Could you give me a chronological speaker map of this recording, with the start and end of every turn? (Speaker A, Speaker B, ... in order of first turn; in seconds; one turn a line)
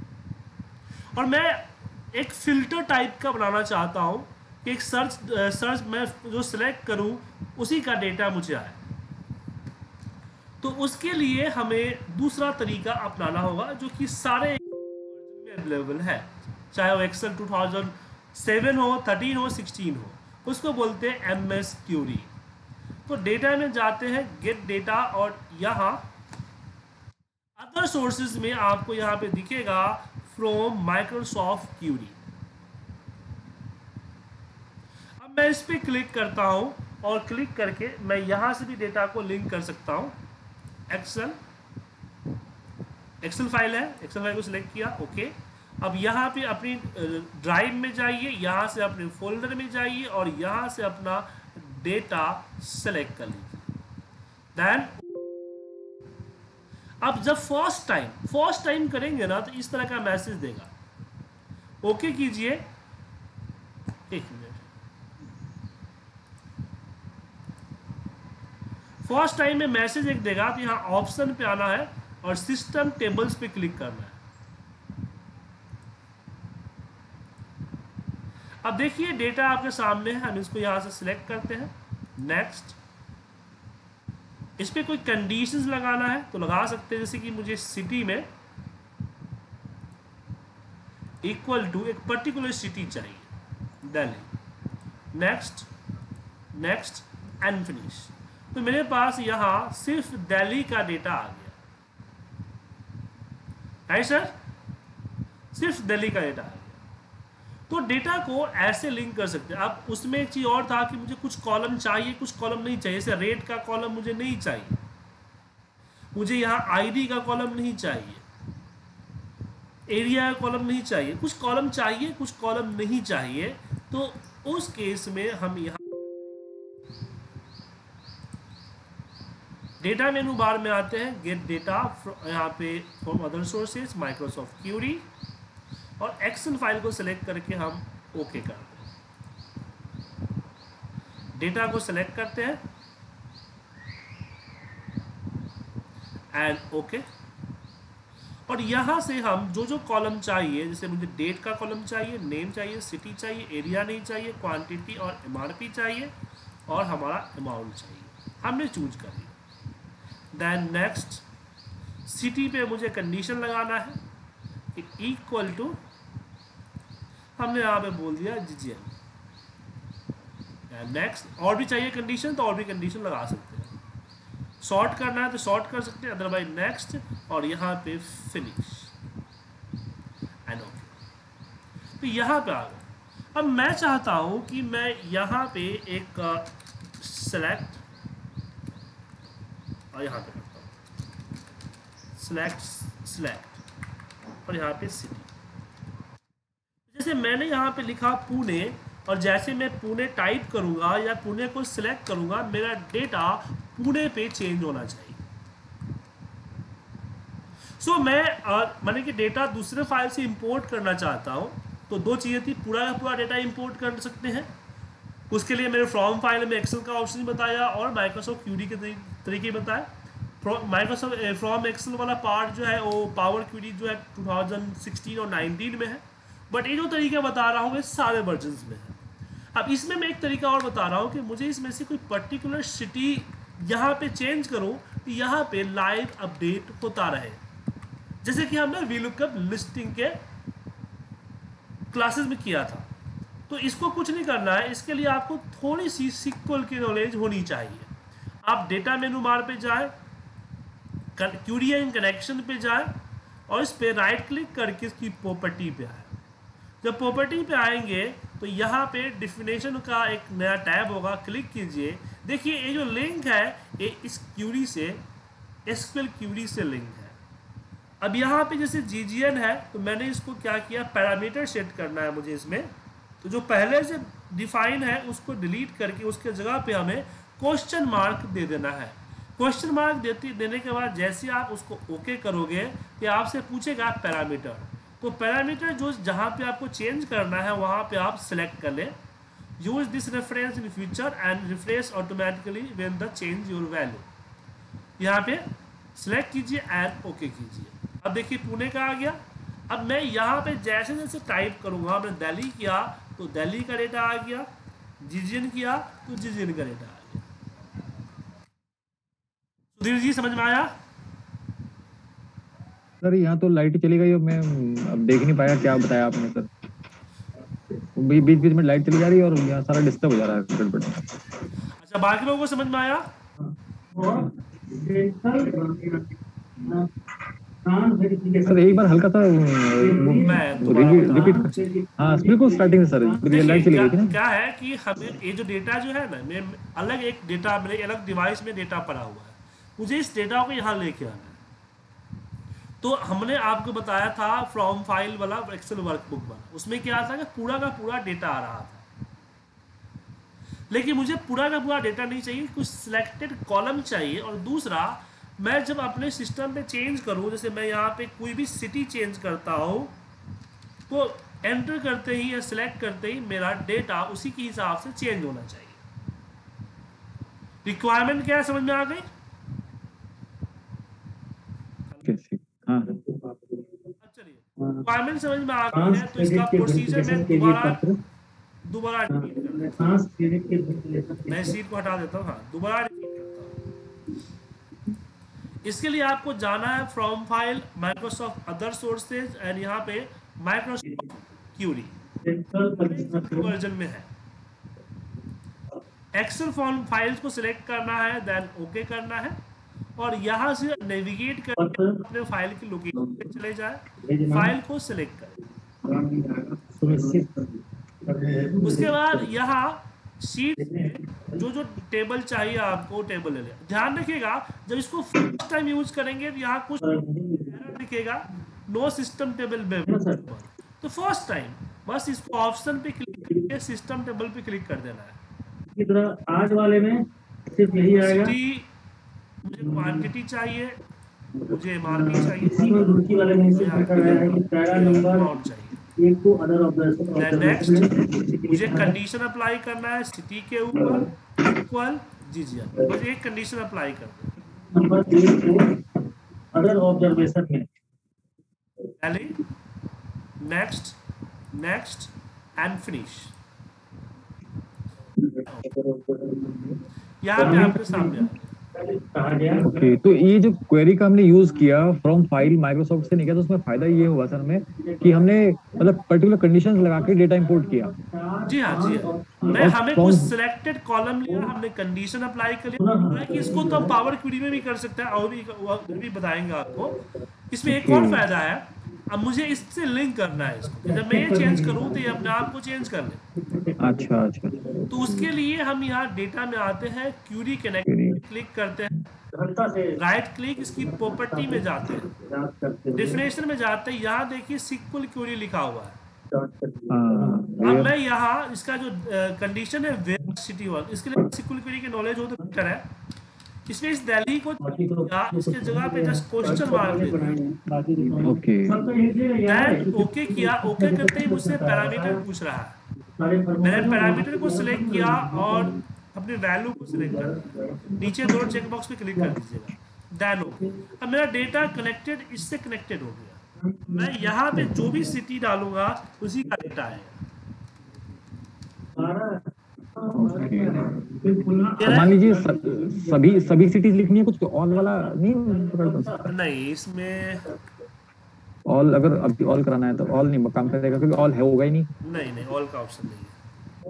Speaker A: 1.2-8.8
Speaker A: 10.6-22.3
Speaker A: 23.1-26.0
Speaker A: 27.6-32.2
Speaker A: 35.2-40.2
Speaker A: 40.9-41.4
Speaker A: 43.2-53.7
Speaker A: 54.6-55.0
Speaker A: 57.0-60.7
Speaker A: 61.8-62.6
Speaker A: 64.1-64.7
Speaker A: 69.0-74.2
Speaker A: 78.6-82.8
Speaker A: 84.6-88.3
Speaker A: 91.2-93.3
Speaker A: 93.8-94.3
Speaker A: 95.1-95.7
Speaker A: 96.5-101.6
Speaker A: 103.9-104.3
Speaker A: 105.5-106.8
Speaker A: 107.7-114.8
Speaker A: 116.1-118.2
Speaker A: 119.9-126.3
Speaker A: 129.8-135.0
Speaker A: 136.0-138.9
Speaker A: 141.4-142.6
Speaker A: 146.3-147.1
Speaker A: 148.5-156.1
Speaker A: 156.7-159.3
Speaker A: 160.3-161.2
Speaker A: 162.1-164.0
Speaker A: 164.8-165.8
Speaker A: 167.4-168.9
Speaker A: 170.7-173.7
Speaker A: 174.6-178.9
Speaker A: 180.5-181.0
Speaker A: 182.0-187.8
Speaker A: 189.9-190.7
Speaker A: 192.2-193.6
Speaker A: 194.5-195.3
Speaker A: 196.9-205.2
Speaker A: 207.8-214.5
Speaker A: 215.3-219.9
Speaker A: 220.4-229.0
Speaker A: 229.5-237.4
Speaker A: 238.2-240.2
Speaker A: 241.9-242.9
Speaker A: 243.5-247.9
Speaker A: 248.4-249.9
Speaker A: 251.2-253.0
Speaker A: 253.5-256.2
Speaker A: 256.8-265.0
Speaker A: 265.7-267.2
Speaker A: 268.0-272.7
Speaker A: 273.2-288.9
Speaker A: 289.6-294.1
Speaker A: 295.0-304.5
Speaker A: 305.0-307.2
Speaker A: 309.8-310.7
Speaker B: 313.0-316.5
Speaker B: 318.0-321.1
Speaker A: 321.8-323.1
Speaker C: 323.4-326.1
Speaker C: 326.6-326.9
Speaker C: 327.6-328.9
Speaker B: 328.4-334.1
Speaker C: 329.7-333.7
Speaker A: 330.1-331.6
Speaker A: 333.3-341.4
Speaker A: 342.8-348.9
Speaker A: 350.7-359.9
Speaker A: 360.9-365.8
Speaker A: 367.6-369.1
Speaker B: 372.0-373.0
Speaker C: 372.9-373.7
Speaker A: 374.0-377.8
Speaker C: 375.7-378.0
Speaker A: 378.7-379.8
Speaker C: 379.1-381.6
Speaker A: 381.3-383.6
Speaker A: 385.6-392.0
Speaker C: 392.2-393.5
Speaker A: 392.7-394.1
Speaker A: 396.1-399.4
Speaker A: 400.0-405.4
Speaker C: 401.6-402.0
Speaker C: 404.0-404.6
Speaker C: 405.8-409.2
Speaker A: 408.6-425.2
Speaker C: 410.6-411.4
Speaker C: 416.8-417.7
Speaker C: 419.9-420.2
Speaker C: 425.7-428.4
Speaker A: 427.9-428.7
Speaker A: 429.4-430.8
Speaker C: 429.6-430.0
Speaker A: 431.4-435.8
Speaker C: 431.8-435.4
Speaker C: 436.0-438.9
Speaker A: 437.1-444.3
Speaker C: 440.8-441.1
Speaker C: 444.7-445.8
Speaker C: 446.5-447.7
Speaker A: 449.0-449.4
Speaker A: 450.4-451.0
Speaker A: 451.5-453.4
Speaker C: 455.7-456.8
Speaker A: 457.2-458.5
Speaker C: 457.4-458.2
Speaker C: 458.8-459.9
Speaker B: 459.6-467.9
Speaker C: 464.7-465.4
Speaker C: 467.1-469.8
Speaker A: 468.4-483.2
Speaker B: 469.6-470.3
Speaker C: 472.8-473.9
Speaker B: 477.6-478.3
Speaker C: 480.8-482.4
Speaker C: 483.5-484.1
Speaker B: 483.8-485.4
Speaker A: 484.9-489.1
Speaker B: 487.9-488.2
Speaker C: 489.3-490.0
Speaker A: 490.0-492.1
Speaker C: 490.7-493.3
Speaker A: 492.9-496.0
Speaker C: 496.3-497.8
Speaker B: 496.9-498.0
Speaker A: 497.6-502.9
Speaker A: 503.7-507.4
Speaker C: 504.6-512.2
Speaker B: 508.2-508.8
Speaker A: 509.4-512.8
Speaker C: 513.2-515.8
Speaker A: 513.6-527.2
Speaker C: 516.9-518.6
Speaker C: 523.6-524.3
Speaker B: 524.5-525.0
Speaker C: 529.0-529.5
Speaker C: 530.0-533.6
Speaker B: 530.1-531.0
Speaker A: 531.8-532.1
Speaker B: 531.8-536.3
Speaker C: 535.5-536.2
Speaker A: 536.3-537.5
Speaker B: 538.7-541.9
Speaker A: 542.0-543.4